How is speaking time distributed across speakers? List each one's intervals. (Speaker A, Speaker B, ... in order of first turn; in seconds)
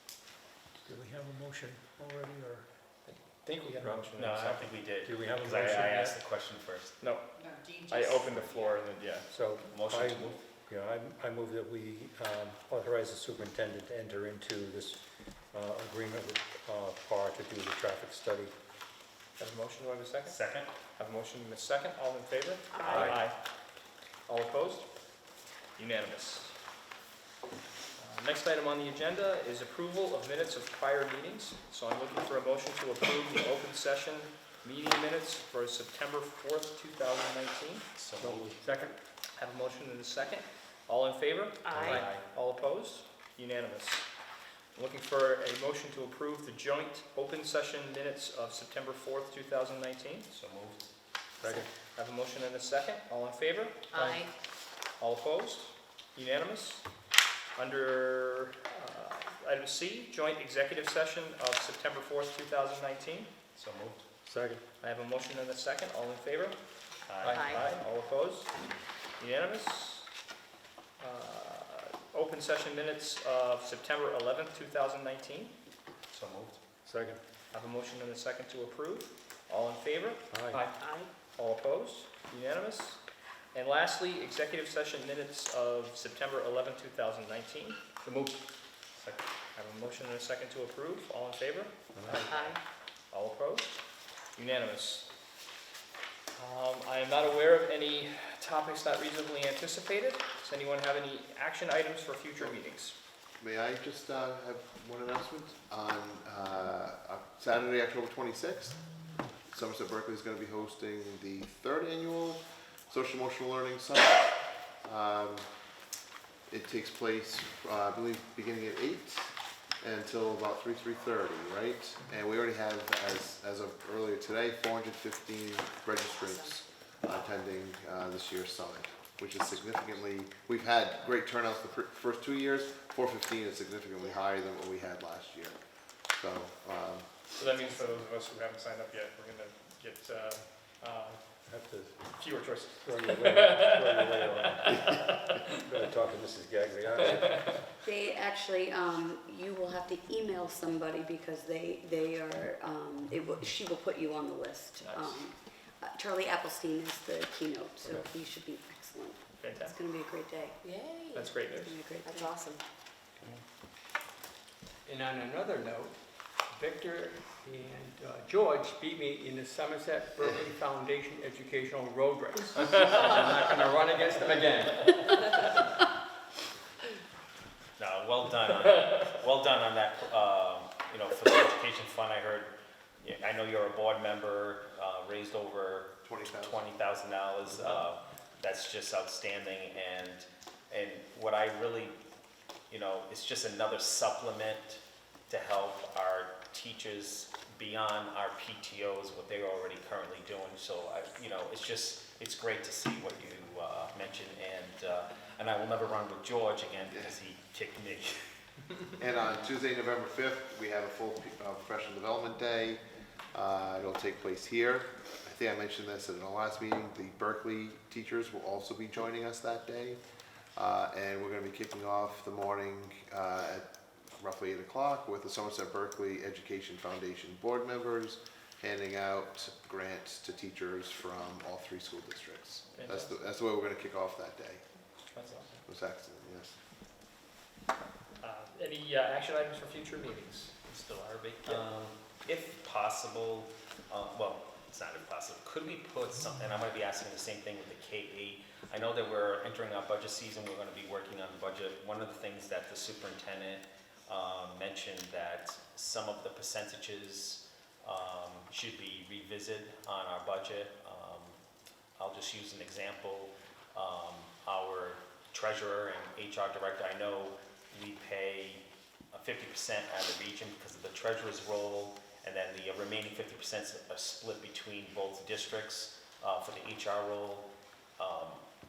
Speaker A: 0.8-2.7, 3.7-4.1, 5.0-6.1, 9.3-18.5, 51.4-51.7, 64.2-64.6, 76.8-77.2, 80.3-80.6, 141.5-141.9, 142.8-147.6
Speaker B: 3.0-4.7, 7.0-9.3, 19.4-20.4, 21.0-23.4, 24.3-24.9, 25.8-26.5, 28.0-37.9, 39.4-44.1, 44.7-50.3, 51.9-54.1, 55.0-56.9, 57.5-63.3, 64.8-66.5, 67.3-68.5, 69.2-70.1, 71.0-75.5, 77.5-80.3, 81.3-83.0, 83.5-87.8, 89.5-92.6, 93.1-93.8, 94.3-95.1, 96.3-103.0, 137.4-141.2, 142.1-145.6, 154.8-155.3, 159.4-159.8, 161.1-161.8, 232.7-233.2, 235.0-235.6, 238.2-240.6
Speaker C: 4.2-7.0, 9.7-10.4, 20.2-20.7, 22.8-23.2, 37.9-38.6, 41.7-42.2, 50.3-50.9, 63.5-64.0, 67.1-67.5, 76.1-76.6, 88.0-88.3, 89.0-89.2, 177.8-192.0, 192.7-208.2, 240.6-261.4, 262.0-278.4
Speaker D: 22.8-23.1, 41.6-42.0, 53.9-54.3, 67.3-67.6, 80.5-81.1, 92.3-92.6, 160.6-161.4, 162.0-162.6
Speaker E: 38.2-38.9, 164.8-175.3
Speaker F: 103.4-108.8, 109.5-115.5, 116.5-135.6, 136.2-137.5, 186.0-186.6, 209.0-212.8, 213.3-220.0, 220.6-223.6, 224.2-234.6, 235.7-236.6
Speaker G: 147.8-160.6, 161.6-162.3